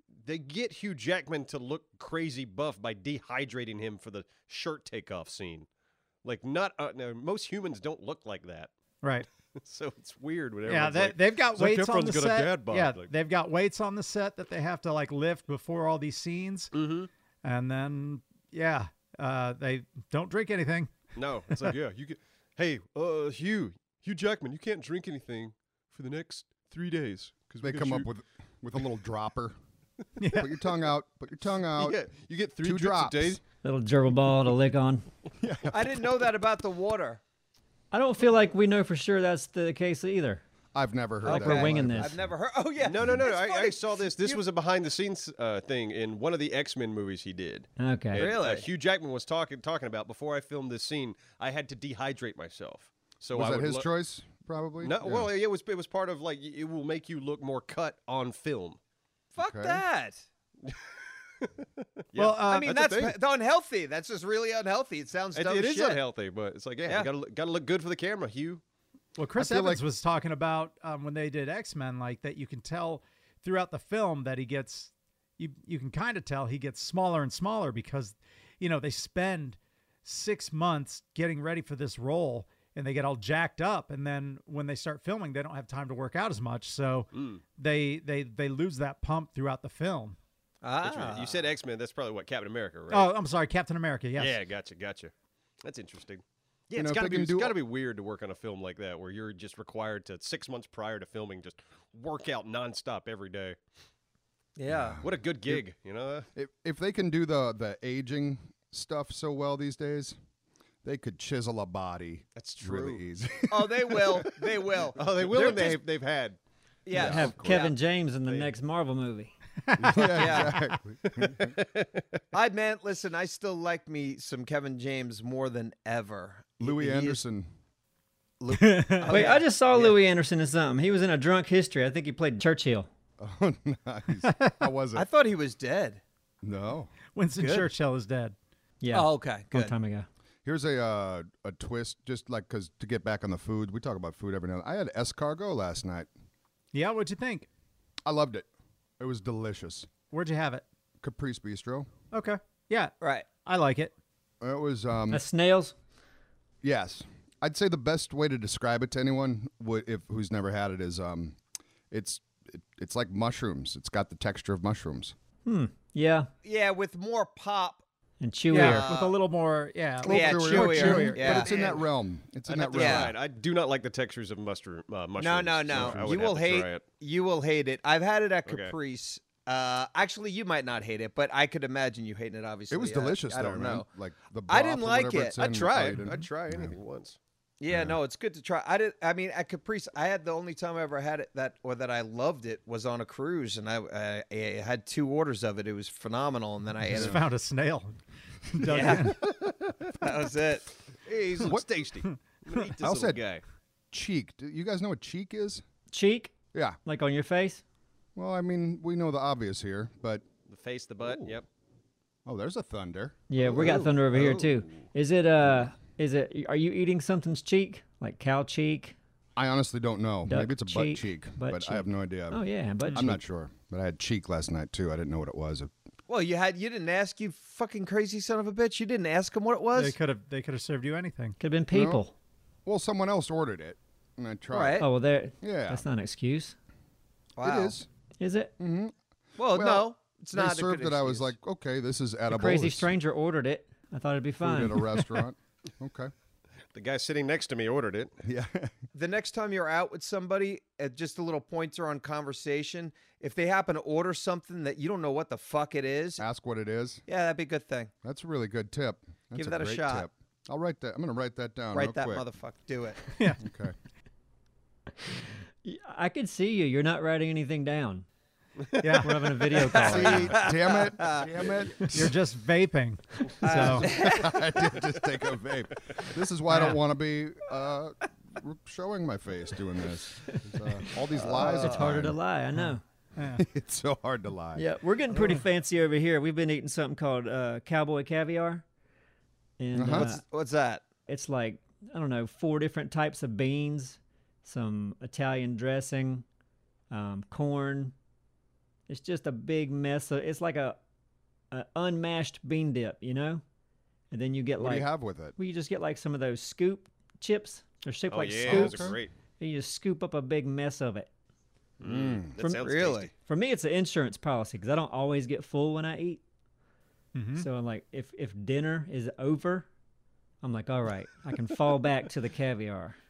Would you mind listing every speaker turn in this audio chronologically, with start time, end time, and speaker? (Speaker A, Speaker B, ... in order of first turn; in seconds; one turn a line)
Speaker A: 0.2-5.7
Speaker A: 6.2-8.7
Speaker B: 9.0-9.3
Speaker A: 9.6-13.1
Speaker B: 10.7-16.7
Speaker A: 16.7-17.1
Speaker B: 17.4-20.9
Speaker A: 21.2-28.1
Speaker C: 27.6-29.6
Speaker B: 30.2-30.6
Speaker C: 30.3-32.0
Speaker A: 31.8-33.4
Speaker C: 32.6-33.4
Speaker D: 33.6-35.1
Speaker C: 35.4-36.1
Speaker E: 35.7-37.2
Speaker D: 37.9-40.4
Speaker C: 40.7-42.3
Speaker D: 41.2-42.2
Speaker E: 41.2-44.4
Speaker A: 42.8-53.9
Speaker D: 47.8-48.3
Speaker E: 48.2-48.7
Speaker C: 53.3-55.3
Speaker A: 54.8-58.8
Speaker E: 59.4-60.2
Speaker C: 59.4-59.8
Speaker A: 62.1-63.2
Speaker B: 62.2-62.7
Speaker E: 62.4-66.0
Speaker A: 65.3-68.6
Speaker B: 69.2-90.2
Speaker C: 69.3-69.8
Speaker A: 87.1-87.4
Speaker E: 90.6-91.5
Speaker A: 90.8-93.1
Speaker B: 92.9-94.4
Speaker A: 94.2-95.1
Speaker A: 95.6-103.6
Speaker C: 96.7-97.6
Speaker E: 104.6-105.0
Speaker C: 104.7-105.6
Speaker A: 105.0-106.3
Speaker C: 106.3-110.2
Speaker C: 110.8-114.3
Speaker A: 112.4-113.0
Speaker E: 113.5-115.8
Speaker A: 114.9-116.4
Speaker E: 116.8-117.8
Speaker C: 116.9-117.7
Speaker D: 116.9-119.3
Speaker A: 118.3-118.5
Speaker B: 119.7-120.0
Speaker C: 119.8-121.6
Speaker E: 120.0-120.6
Speaker A: 121.0-122.0
Speaker E: 122.3-127.2
Speaker C: 126.6-127.5
Speaker B: 128.5-129.3
Speaker E: 128.9-130.0
Speaker D: 129.1-132.9
Speaker C: 133.2-135.1
Speaker B: 134.2-134.5
Speaker E: 134.9-136.0
Speaker C: 136.4-136.9
Speaker B: 137.1-138.3
Speaker E: 137.4-137.7
Speaker D: 138.8-140.1
Speaker E: 138.9-139.8
Speaker C: 140.4-146.1
Speaker B: 146.7-147.5
Speaker C: 148.1-148.5
Speaker C: 149.0-149.9
Speaker B: 150.1-150.7
Speaker C: 151.0-151.9
Speaker B: 152.1-153.9
Speaker E: 153.0-153.3
Speaker C: 154.4-155.2
Speaker D: 155.1-155.7
Speaker C: 156.6-161.4
Speaker C: 161.9-165.2
Speaker D: 165.5-166.3
Speaker E: 166.4-167.8
Speaker D: 168.2-168.9
Speaker B: 168.5-171.6
Speaker E: 168.5-169.2
Speaker C: 170.0-173.2
Speaker E: 170.0-171.8
Speaker A: 172.5-176.8
Speaker E: 172.8-173.1
Speaker E: 175.2-183.9
Speaker C: 175.7-176.2
Speaker A: 178.5-178.8
Speaker C: 182.7-186.8
Speaker E: 184.5-185.4
Speaker A: 185.4-187.2
Speaker E: 187.6-197.2
Speaker C: 187.7-188.0
Speaker B: 196.9-199.2
Speaker C: 196.9-197.2
Speaker E: 198.7-199.3
Speaker A: 198.7-199.5
Speaker E: 200.0-200.7
Speaker A: 201.0-203.4
Speaker C: 202.8-203.2
Speaker C: 203.9-205.6
Speaker D: 205.9-207.6
Speaker C: 206.5-206.8
Speaker C: 208.2-210.2
Speaker A: 210.5-211.5
Speaker C: 211.1-211.3
Speaker C: 212.3-214.0
Speaker D: 213.3-219.0
Speaker E: 213.6-214.4
Speaker C: 219.4-222.4
Speaker D: 220.2-223.2
Speaker C: 222.9-225.7
Speaker E: 226.1-230.0
Speaker B: 229.8-231.4
Speaker D: 231.4-232.1
Speaker C: 231.7-232.0
Speaker C: 232.7-234.8
Speaker E: 234.5-234.9
Speaker D: 234.8-236.6
Speaker C: 235.4-235.8
Speaker E: 237.4-237.8
Speaker C: 237.4-237.9
Speaker D: 238.2-238.5
Speaker C: 238.6-242.9
Speaker E: 239.4-241.3
Speaker D: 242.3-245.2
Speaker C: 244.4-246.1
Speaker A: 246.7-248.1
Speaker C: 248.2-248.7
Speaker E: 248.9-256.2
Speaker C: 256.2-257.0
Speaker E: 257.1-257.9
Speaker C: 258.0-262.2
Speaker E: 259.4-260.1
Speaker E: 261.7-263.1
Speaker B: 263.1-263.4
Speaker C: 263.4-263.8
Speaker D: 265.6-268.1
Speaker A: 268.6-269.0
Speaker B: 268.8-269.3
Speaker D: 269.0-270.5
Speaker E: 269.5-271.5
Speaker C: 269.8-272.2
Speaker B: 271.9-273.9
Speaker D: 273.3-274.0
Speaker E: 273.4-274.8
Speaker C: 273.6-282.2
Speaker B: 276.5-276.8
Speaker E: 281.1-282.1
Speaker D: 281.2-282.8
Speaker B: 282.6-283.4
Speaker C: 283.4-284.7
Speaker D: 284.6-288.6
Speaker D: 289.6-290.2
Speaker C: 289.7-290.1
Speaker E: 289.9-290.8
Speaker D: 291.1-296.2
Speaker D: 296.9-297.9
Speaker D: 298.9-300.8
Speaker D: 301.5-303.4
Speaker D: 304.1-311.1
Speaker C: 304.6-305.4
Speaker A: 308.1-309.1
Speaker C: 308.4-309.0
Speaker A: 311.8-313.1
Speaker C: 311.8-312.4
Speaker D: 312.4-316.2
Speaker E: 312.6-313.1
Speaker B: 317.1-317.5
Speaker D: 317.4-319.7
Speaker D: 320.4-323.0